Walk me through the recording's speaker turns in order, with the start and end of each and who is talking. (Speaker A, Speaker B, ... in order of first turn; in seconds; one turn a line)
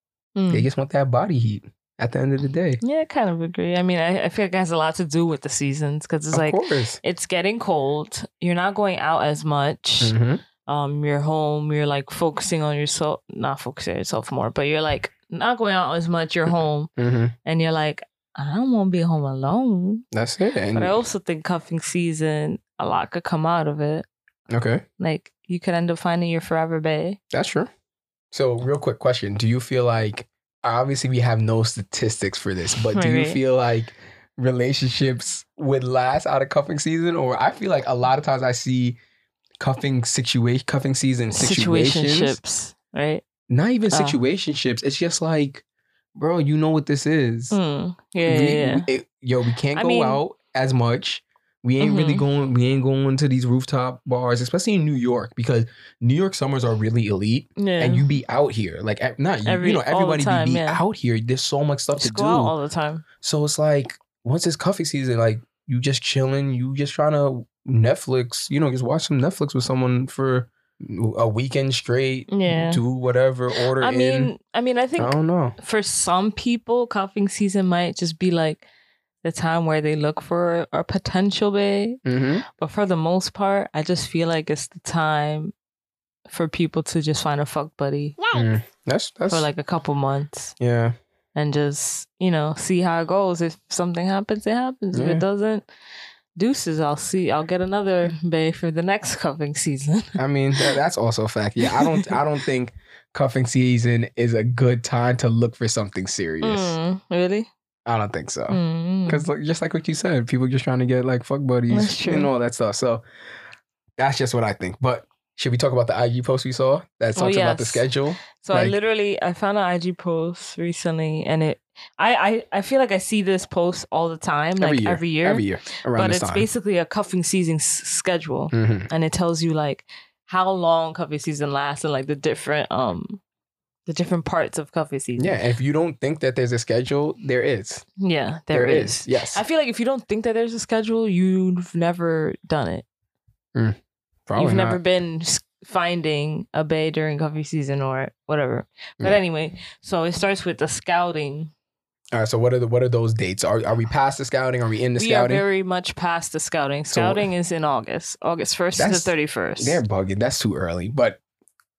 Speaker A: 0.3-0.7
Speaker B: 0.5-2.8
Speaker A: 2.8-16.9
Speaker B: 6.3-7.0
Speaker B: 10.0-10.4
Speaker B: 17.0-17.3
Speaker A: 17.4-20.0
Speaker B: 20.1-21.0
Speaker A: 20.7-24.1
Speaker B: 24.5-24.8
Speaker A: 25.0-27.2
Speaker B: 27.3-27.7
Speaker B: 28.3-39.0
Speaker A: 32.9-33.4
Speaker B: 39.6-42.4
Speaker A: 41.3-43.2
Speaker B: 43.5-45.6
Speaker A: 43.9-44.2
Speaker B: 46.1-47.6
Speaker A: 47.5-48.9
Speaker B: 48.2-62.5
Speaker A: 49.7-50.2
Speaker A: 51.8-52.2
Speaker A: 57.6-58.1
Speaker A: 59.4-60.8
Speaker A: 62.0-63.0
Speaker B: 63.2-74.3
Speaker A: 72.3-72.8
Speaker A: 73.7-78.7
Speaker B: 75.0-75.6
Speaker A: 79.2-85.5
Speaker B: 82.0-82.4
Speaker A: 86.3-88.3
Speaker B: 88.3-89.5
Speaker A: 89.3-90.5
Speaker B: 90.6-91.0
Speaker A: 91.3-95.7
Speaker B: 94.9-95.2
Speaker A: 96.4-100.7
Speaker B: 100.2-106.8
Speaker A: 101.6-102.1
Speaker A: 106.4-107.5
Speaker B: 107.8-113.0
Speaker A: 108.5-109.2
Speaker A: 111.7-112.3
Speaker B: 114.0-118.8
Speaker A: 117.1-117.9
Speaker A: 118.4-133.2
Speaker B: 124.6-126.5
Speaker B: 128.5-128.9
Speaker A: 133.9-135.4
Speaker B: 135.2-137.8
Speaker A: 138.0-142.8
Speaker B: 138.5-139.4
Speaker B: 143.5-144.8
Speaker A: 144.3-151.5
Speaker B: 152.1-155.4
Speaker A: 154.9-159.8
Speaker B: 156.9-157.2
Speaker B: 158.8-161.2